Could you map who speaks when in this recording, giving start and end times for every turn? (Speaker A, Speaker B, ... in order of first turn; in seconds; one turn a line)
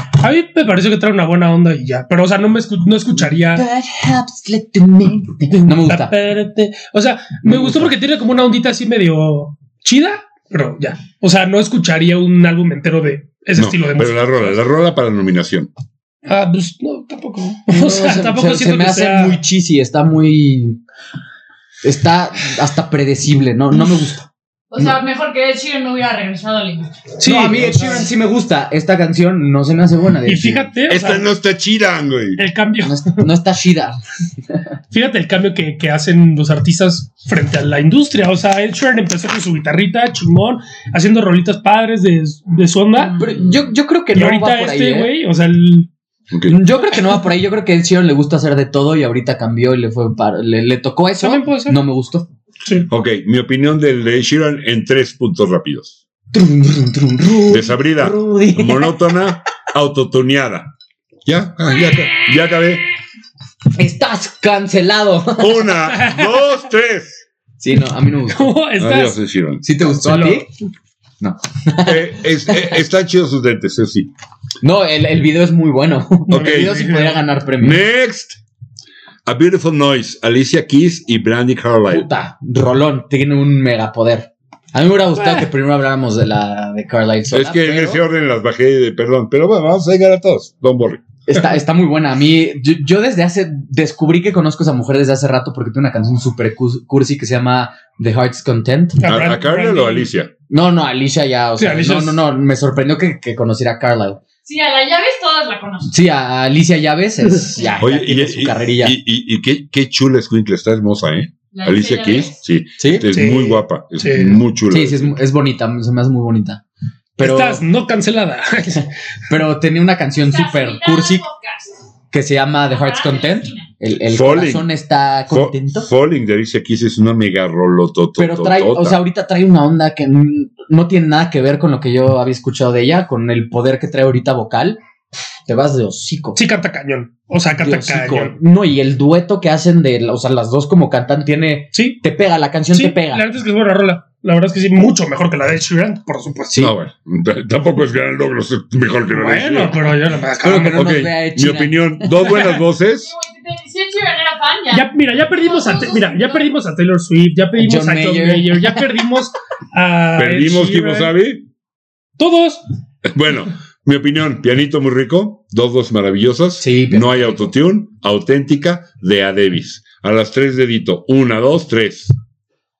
Speaker A: 0.2-3.6
Speaker B: 3.2-6.2
Speaker A: 5.5-14.6
Speaker B: 7.5-7.9
Speaker C: 13.6-15.7
Speaker A: 16.3-19.4
Speaker B: 17.7-20.8
Speaker B: 21.8-25.0
Speaker D: 24.7-27.1
Speaker A: 27.2-28.1
Speaker B: 27.2-30.7
Speaker A: 30.3-31.3
Speaker C: 30.9-32.4
Speaker A: 32.4-33.3
Speaker B: 32.8-34.0
Speaker A: 34.9-43.2
Speaker B: 43.1-45.1
Speaker A: 44.1-45.9
Speaker C: 46.3-46.6
Speaker B: 46.5-52.3
Speaker A: 51.2-51.8
Speaker A: 52.6-52.9
Speaker C: 52.9-56.0
Speaker B: 56.3-59.0
Speaker C: 57.5-60.7
Speaker C: 61.3-62.8
Speaker B: 63.7-65.8
Speaker C: 65.4-67.2
Speaker A: 65.9-66.3
Speaker B: 67.6-68.5
Speaker A: 68.3-69.2
Speaker C: 68.8-69.7
Speaker B: 69.6-70.5
Speaker A: 69.9-70.5
Speaker B: 71.2-72.8
Speaker C: 71.8-74.1
Speaker B: 74.6-77.8
Speaker A: 76.3-77.2
Speaker C: 76.3-76.7
Speaker C: 77.6-78.4
Speaker C: 79.3-82.1
Speaker B: 81.9-88.0
Speaker C: 87.3-91.0
Speaker B: 91.3-99.1
Speaker A: 99.0-100.1
Speaker C: 99.0-100.3
Speaker B: 100.5-104.2
Speaker A: 101.6-102.2
Speaker D: 104.5-105.9
Speaker B: 105.9-109.0
Speaker C: 107.8-115.2
Speaker D: 111.5-112.4
Speaker B: 112.8-113.1
Speaker A: 113.1-114.4
Speaker B: 114.7-116.6
Speaker B: 117.2-117.6
Speaker A: 117.2-118.9
Speaker B: 119.3-121.2
Speaker D: 120.2-121.8
Speaker B: 122.1-125.9
Speaker D: 122.7-123.7
Speaker C: 124.1-124.7
Speaker C: 125.3-129.0
Speaker B: 128.2-134.8
Speaker B: 135.5-136.4
Speaker A: 136.4-138.3
Speaker B: 137.6-143.2
Speaker A: 141.7-142.0
Speaker A: 142.7-146.7
Speaker C: 146.5-149.8
Speaker A: 149.1-150.8
Speaker B: 150.4-152.5
Speaker C: 150.7-153.1
Speaker A: 152.2-152.6
Speaker D: 152.8-156.5
Speaker A: 154.7-161.2
Speaker B: 157.6-158.8
Speaker C: 160.2-161.5
Speaker A: 162.2-162.6
Speaker C: 163.1-172.1
Speaker B: 166.6-167.5